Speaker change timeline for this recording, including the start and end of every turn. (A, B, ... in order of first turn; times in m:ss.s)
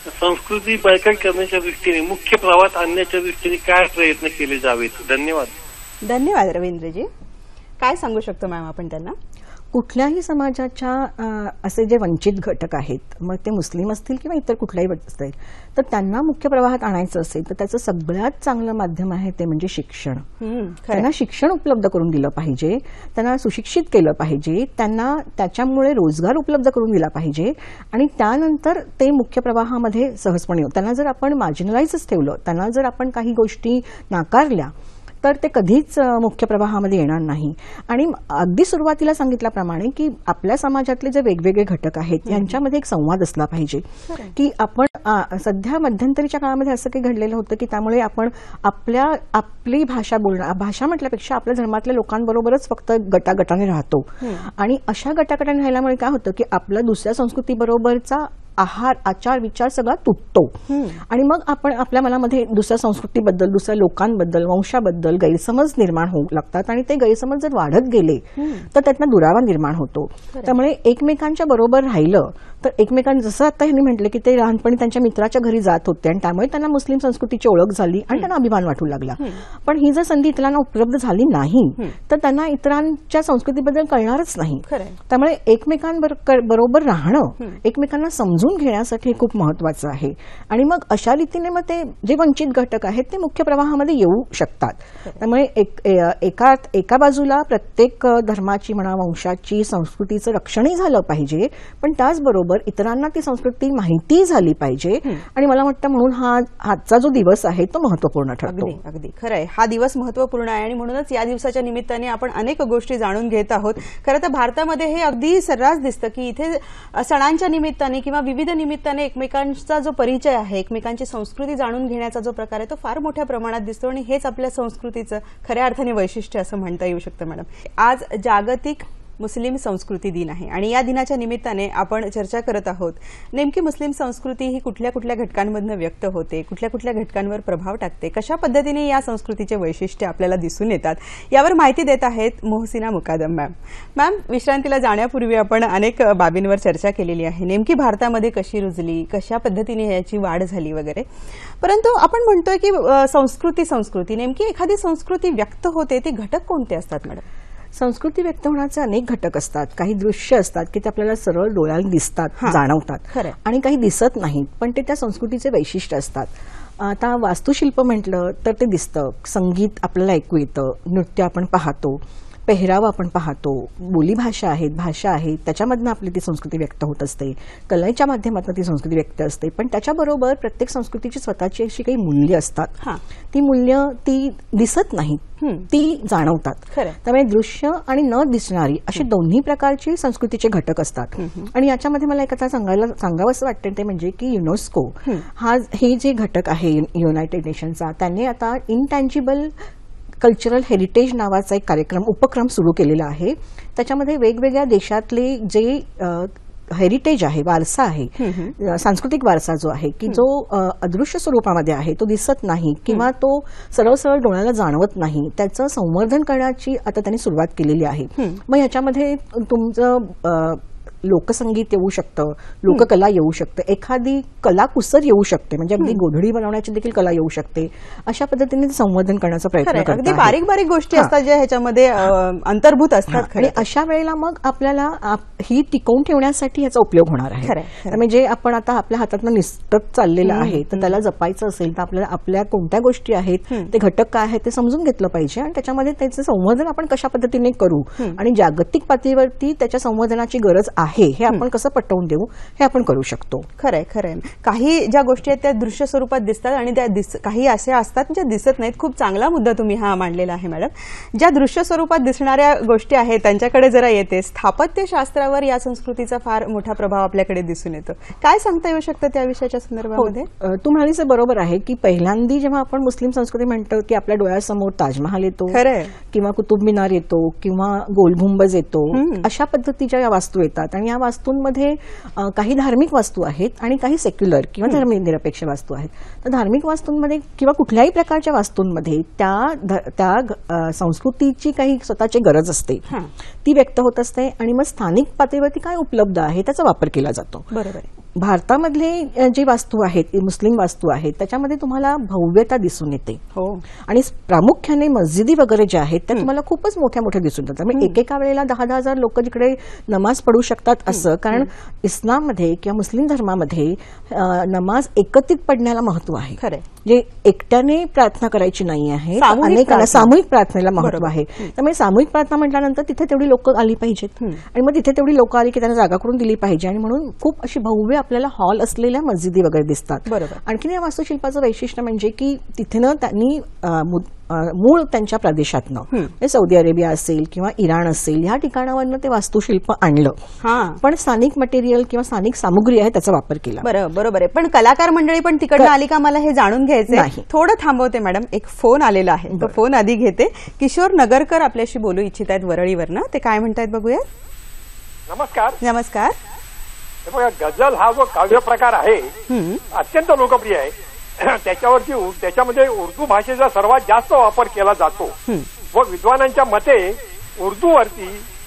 0:00.2-0:05.5 A
0:06.0-0:07.1 B
0:07.8-0:09.1 B
0:09.7-0:20.3 C
0:20.4-0:21.1 B
0:20.9-1:48.8 C
0:42.3-0:42.5 B
0:54.2-0:54.5 B
1:00.7-1:01.0 B
1:08.4-1:08.6 B
1:24.7-1:25.0 B
1:48.5-2:37.2 B
2:37.7-3:02.8 C
3:03.3-3:19.6 C
3:05.4-3:05.7 B
3:11.2-3:11.5 B
3:20.2-3:50.4 C
3:28.2-3:28.5 B
3:49.6-3:53.6 B
3:53.1-4:13.5 C
3:57.4-3:58.0 B
4:00.2-4:01.0 B
4:13.6-4:30.3 B
4:29.9-4:52.9 C
4:35.5-4:35.9 B
4:38.9-4:39.3 B
4:53.4-4:57.5 C
4:57.5-4:57.9 B
4:58.1-5:03.2 C
5:03.3-5:03.6 B
5:03.8-5:40.2 C
5:10.9-5:11.5 B
5:19.2-5:20.1 B
5:20.8-5:21.5 B
5:30.1-5:30.4 B
5:40.4-5:40.8 B
5:40.8-5:43.7 C
5:43.6-5:54.0 B
5:46.9-5:47.2 C
5:49.3-5:49.6 C
5:55.1-5:55.6 D
5:55.6-5:56.1 B
5:57.0-5:59.1 D
5:59.3-5:59.6 B
5:59.7-6:05.1 D
6:05.7-6:08.2 D